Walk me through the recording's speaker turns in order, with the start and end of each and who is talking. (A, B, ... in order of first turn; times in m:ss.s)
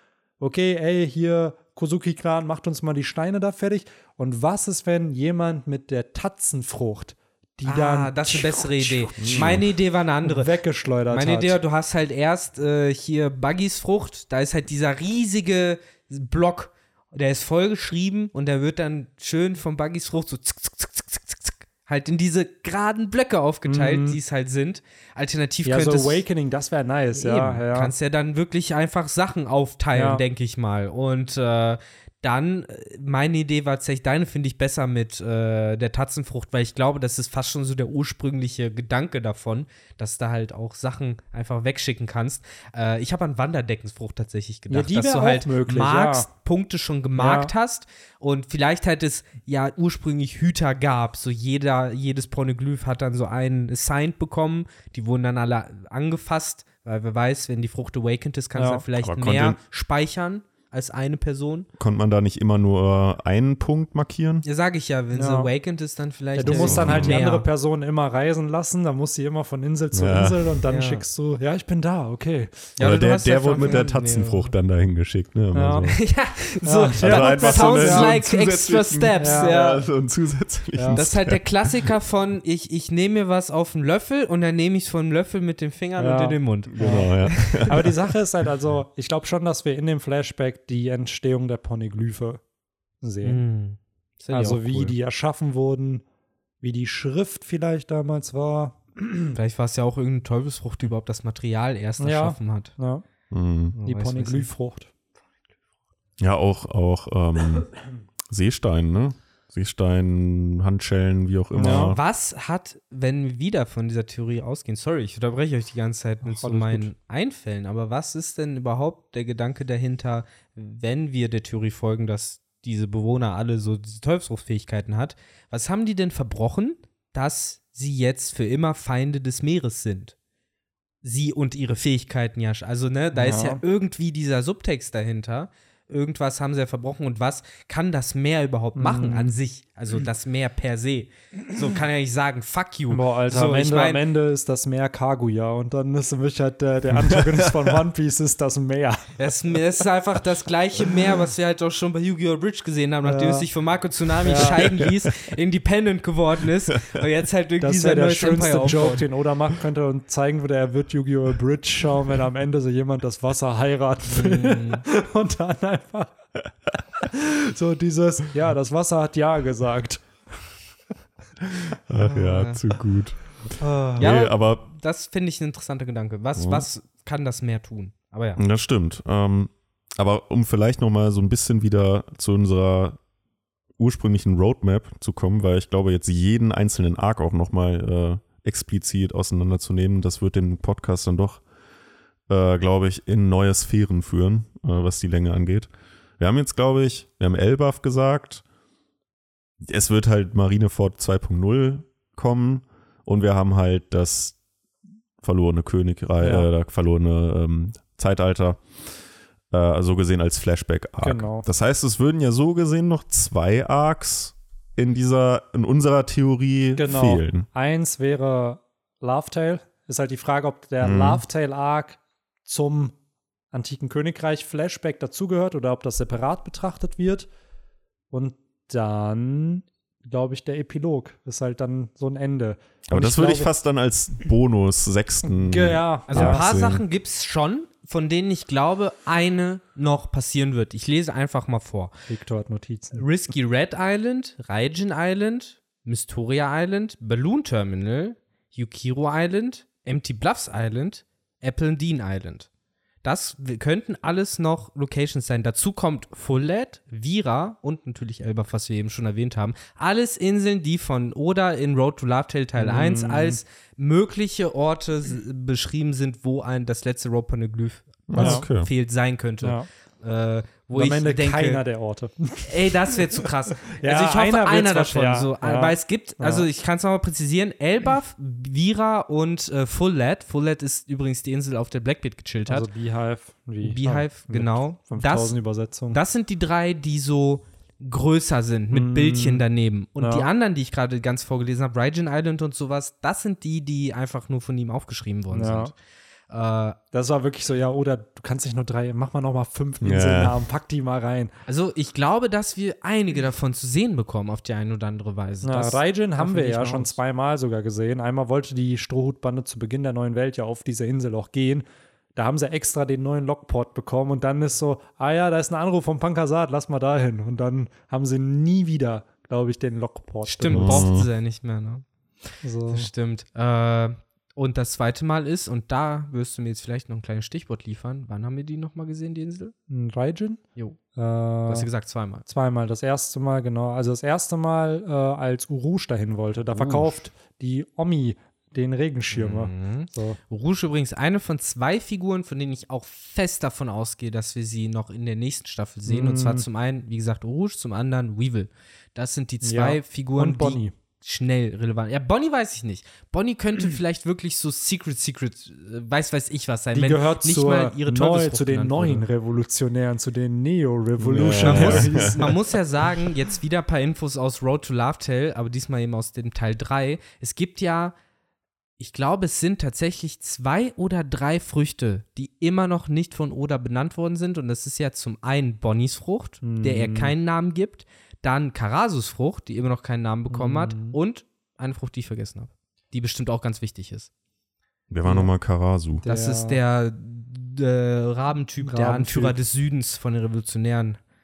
0:00.4-0:09.7 A
0:07.7-0:10.5 B
0:09.2-0:09.7 C
0:10.2-0:11.6 A
0:11.1-0:26.2 B
0:23.7-0:24.2 A
0:25.6-0:27.9 A
0:27.2-1:01.7 B
0:29.9-0:30.2 A
0:44.7-0:46.3 A
0:47.2-0:47.5 A
0:58.6-0:58.8 A
0:59.0-0:59.6 C
1:01.8-1:04.4 C
1:04.4-1:07.5 B
1:05.1-1:05.5 A
1:06.4-1:12.8 A
1:06.4-1:07.2 C
1:09.9-1:10.6 C
1:10.7-1:11.0 B
1:12.8-1:14.5 B
1:12.8-1:16.1 C
1:13.5-1:13.9 A
1:15.5-1:15.9 A
1:15.8-1:19.8 B
1:16.6-1:18.2 A
1:17.0-1:21.9 C
1:19.2-1:19.6 A
1:20.7-1:21.0 A
1:20.9-1:27.8 B
1:26.0-1:32.4 A
1:26.7-1:28.0 C
1:33.0-1:33.4 A
1:33.2-1:34.9 B
1:34.3-1:36.0 A
1:36.6-1:39.4 A
1:39.4-1:42.8 B
1:42.0-1:43.0 A
1:43.3-1:43.8 C
1:43.8-1:44.5 B
1:43.8-1:44.9 A
1:46.2-1:47.7 C
1:48.3-1:52.0 C
1:51.5-1:52.0 A
1:51.6-2:10.2 B
1:56.2-1:56.9 A
2:11.0-2:24.0 B
2:13.1-2:13.6 A
2:18.8-2:19.4 A
2:22.9-2:29.6 A
2:26.9-2:27.6 C
2:29.2-2:39.0 B
2:33.0-2:33.5 A
2:34.2-2:34.6 A
2:34.4-2:35.1 C
2:37.6-2:46.1 A
2:44.1-2:44.8 B
2:47.0-2:50.2 A
2:51.9-2:54.6 C
2:52.0-2:52.6 B
2:53.6-2:54.1 A
2:54.0-2:58.4 B
2:56.4-2:56.7 C
2:58.4-3:03.0 C
3:03.8-3:11.4 C
3:12.3-3:18.4 C
3:19.6-3:24.4 C
3:25.2-3:28.6 C
3:26.2-3:26.5 A
3:29.5-3:37.5 C
3:31.0-3:31.5 A
3:36.8-3:43.0 A
3:40.8-3:41.2 C
3:43.5-3:47.3 A
3:48.1-3:53.5 A
3:52.9-3:56.8 C
3:55.2-3:56.4 A
3:56.1-4:01.9 B
4:02.1-4:03.0 A
4:03.0-4:12.5 B
4:13.0-4:31.6 B
4:22.6-4:23.4 A
4:28.1-4:28.7 C
4:28.2-4:28.5 A
4:30.7-4:36.5 A
4:32.5-4:42.7 B
4:42.5-4:46.0 A
4:43.6-4:45.4 B
4:45.9-4:55.8 B
4:48.7-4:49.4 A
4:50.0-4:50.3 A
4:55.3-4:55.7 A
4:56.3-4:56.8 B
4:56.9-5:01.3 A
4:59.8-5:00.4 C
5:01.5-5:07.0 B
5:05.4-5:20.9 A
5:20.3-5:21.8 B
5:20.5-5:21.1 C
5:22.4-5:22.9 A
5:22.7-5:29.5 B
5:29.7-5:30.4 A
5:31.0-5:31.7 A
5:31.5-5:32.3 B
5:32.3-5:40.2 A
5:36.6-5:37.0 B
5:39.1-5:59.1 B
5:45.9-5:46.4 A
5:49.4-5:50.7 A
5:56.7-6:02.4 A
6:01.0-6:02.2 C
6:01.4-6:08.0 B
6:08.8-6:24.1 B
6:16.4-6:17.1 A
6:20.3-6:21.0 A
6:24.9-6:26.0 C
6:25.0-6:25.3 A
6:26.0-6:26.6 A
6:26.1-6:31.0 B
6:28.6-6:29.4 A